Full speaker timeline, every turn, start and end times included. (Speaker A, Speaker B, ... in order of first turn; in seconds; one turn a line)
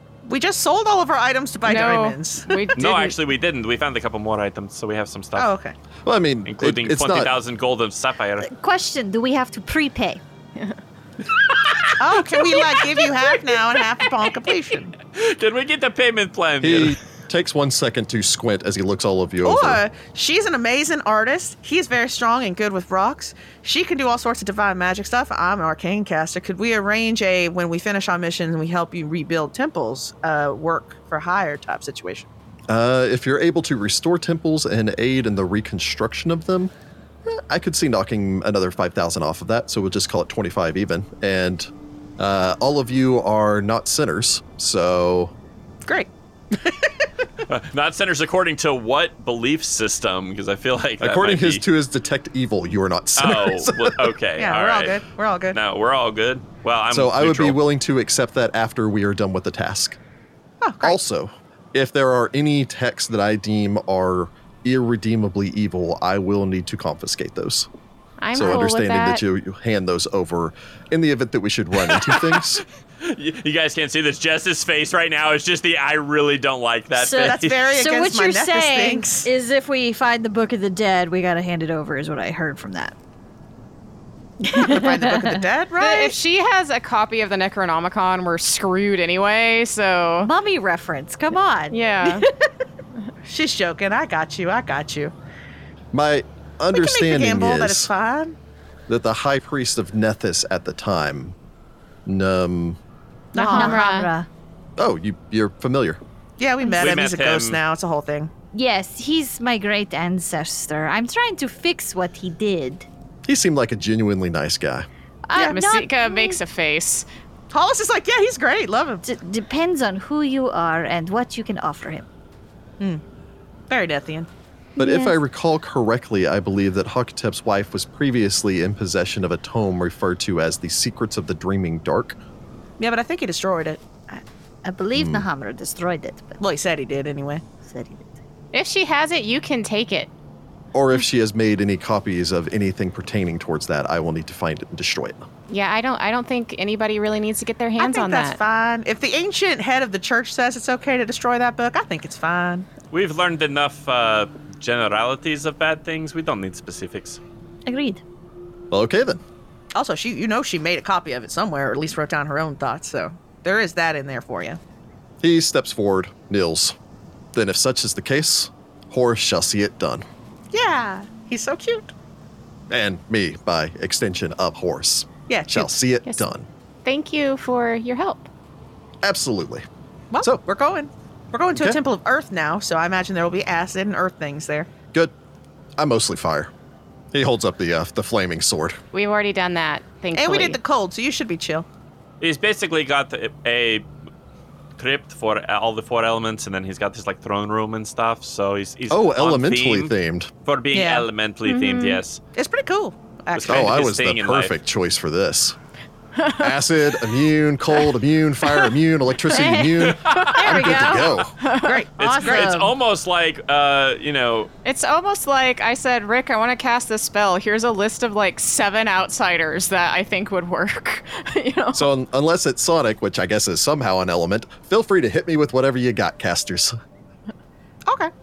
Speaker A: 0.3-2.5
Speaker B: 1.6-3.2
Speaker C: 2.8-5.5
Speaker A: 5.4-5.8
Speaker D: 6.0-7.3
Speaker C: 6.5-8.5
Speaker E: 8.4-10.2
Speaker B: 11.3-13.0
Speaker A: 12.0-14.9
Speaker C: 15.1-17.0
Speaker D: 16.6-19.8
Speaker A: 19.4-32.3
Speaker D: 32.7-36.7
Speaker D: 37.3-45.3
Speaker A: 45.9-47.1
Speaker C: 47.5-51.6
Speaker D: 51.0-54.1
Speaker C: 53.1-57.6
Speaker A: 54.4-55.6
Speaker D: 56.9-60.0
Speaker A: 60.6-61.0
Speaker D: 60.8-67.7
Speaker B: 68.2-69.2
Speaker D: 68.3-72.6
Speaker C: 71.9-77.6
Speaker E: 77.0-83.0
Speaker A: 77.1-79.3
Speaker E: 84.4-85.4
Speaker A: 84.5-86.2
Speaker B: 85.8-90.3
Speaker E: 90.2-92.5
Speaker B: 91.7-92.3
Speaker A: 93.2-95.1
Speaker D: 95.9-97.9
Speaker A: 96.7-98.3
Speaker D: 98.9-101.4
Speaker D: 102.1-102.8
Speaker A: 103.3-103.8
Speaker B: 103.3-104.1
Speaker E: 103.5-104.3
Speaker D: 104.8-106.0
Speaker A: 106.4-108.3
Speaker E: 106.6-106.9
Speaker C: 106.8-107.6
Speaker E: 108.5-112.9
Speaker D: 113.3-114.9
Speaker E: 115.3-116.4
Speaker B: 115.4-117.1
Speaker A: 117.5-119.0
Speaker E: 119.0-122.1
Speaker A: 123.7-124.3
Speaker E: 124.8-125.2
Speaker D: 124.8-132.2
Speaker A: 132.8-133.8
Speaker E: 134.1-136.4
Speaker D: 134.9-135.3
Speaker A: 136.4-137.4
Speaker E: 137.6-138.1
Speaker B: 138.5-140.1
Speaker D: 140.7-145.2
Speaker B: 145.5-148.4
Speaker A: 147.8-152.7
Speaker C: 152.9-157.2
Speaker E: 157.7-158.0
Speaker D: 158.7-159.2
Speaker A: 159.7-164.6
Speaker D: 165.2-166.8
Speaker D: 167.3-170.1
Speaker A: 170.5-171.9
Speaker D: 172.7-176.5
Speaker A: 175.3-175.7
Speaker B: 176.8-178.3
Speaker D: 179.0-179.6
Speaker A: 180.1-184.7
Speaker D: 181.6-181.8
Speaker D: 185.8-186.5
Speaker D: 187.1-188.8
Speaker B: 188.9-190.6
Speaker A: 190.1-191.7
Speaker C: 192.2-193.9
Speaker C: 194.8-199.9
Speaker D: 198.9-200.3
Speaker C: 200.4-202.2
Speaker A: 200.7-201.1
Speaker B: 201.4-202.0
Speaker A: 202.3-203.8
Speaker C: 203.3-204.5
Speaker D: 203.4-205.6
Speaker B: 206.2-206.4
Speaker D: 206.4-211.3
Speaker E: 209.3-211.2
Speaker C: 209.9-210.4
Speaker B: 210.2-210.6
Speaker B: 211.4-211.8
Speaker A: 211.6-212.5
Speaker E: 212.0-212.7
Speaker C: 212.0-214.5
Speaker B: 214.6-221.9
Speaker D: 221.7-226.8
Speaker A: 227.9-228.1